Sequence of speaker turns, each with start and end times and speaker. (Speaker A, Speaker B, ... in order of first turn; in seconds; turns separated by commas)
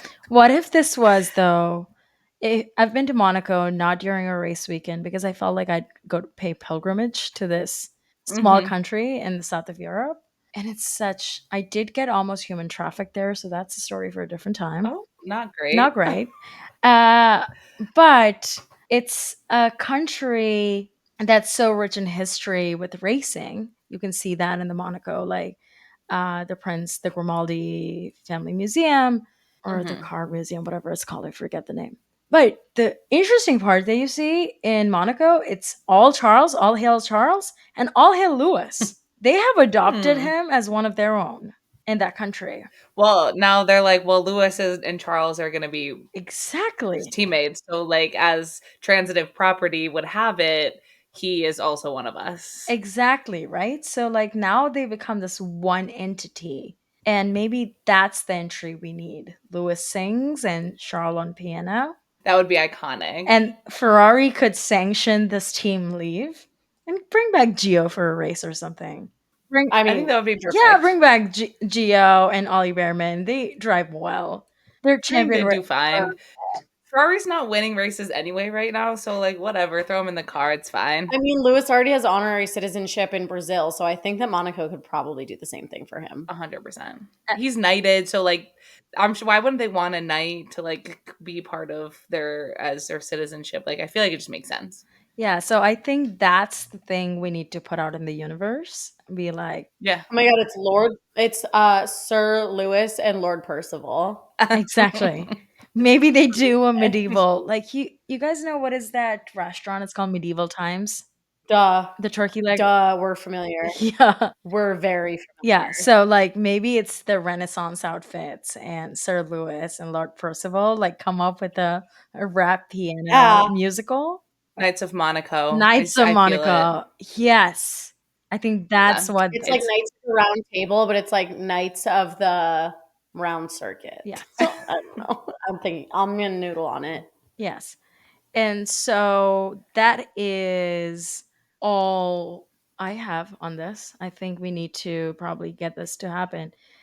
Speaker A: 0.3-1.9, Speaker A: 2.4-14.9, Speaker B: 8.3-8.7, Speaker B: 14.8-16.1, Speaker A: 15.7-25.6, Speaker A: 26.1-42.7, Speaker B: 29.7-30.1, Speaker B: 39.9-40.3, Speaker B: 43.0-46.0, Speaker A: 46.1-47.1, Speaker B: 47.0-52.7, Speaker A: 52.7-61.9, Speaker B: 62.2-63.4, Speaker A: 63.2-69.8, Speaker C: 69.7-70.1, Speaker B: 69.9-70.9, Speaker A: 70.5-75.6, Speaker B: 75.1-76.2, Speaker B: 76.9-81.1, Speaker C: 81.1-86.3, Speaker B: 86.3-94.8, Speaker A: 95.2-99.7, Speaker B: 99.8-100.0, Speaker C: 100.1-104.3, Speaker B: 104.4-105.3, Speaker A: 104.5-111.0, Speaker C: 111.5-111.9, Speaker A: 112.0-112.7, Speaker C: 112.5-113.8, Speaker A: 113.7-114.3, Speaker C: 114.4-115.9, Speaker A: 115.4-124.2, Speaker C: 123.1-123.5, Speaker B: 124.6-126.7, Speaker A: 125.5-129.7, Speaker B: 128.8-129.6, Speaker C: 129.3-137.1, Speaker A: 134.0-134.6, Speaker A: 137.4-137.8, Speaker A: 138.3-146.5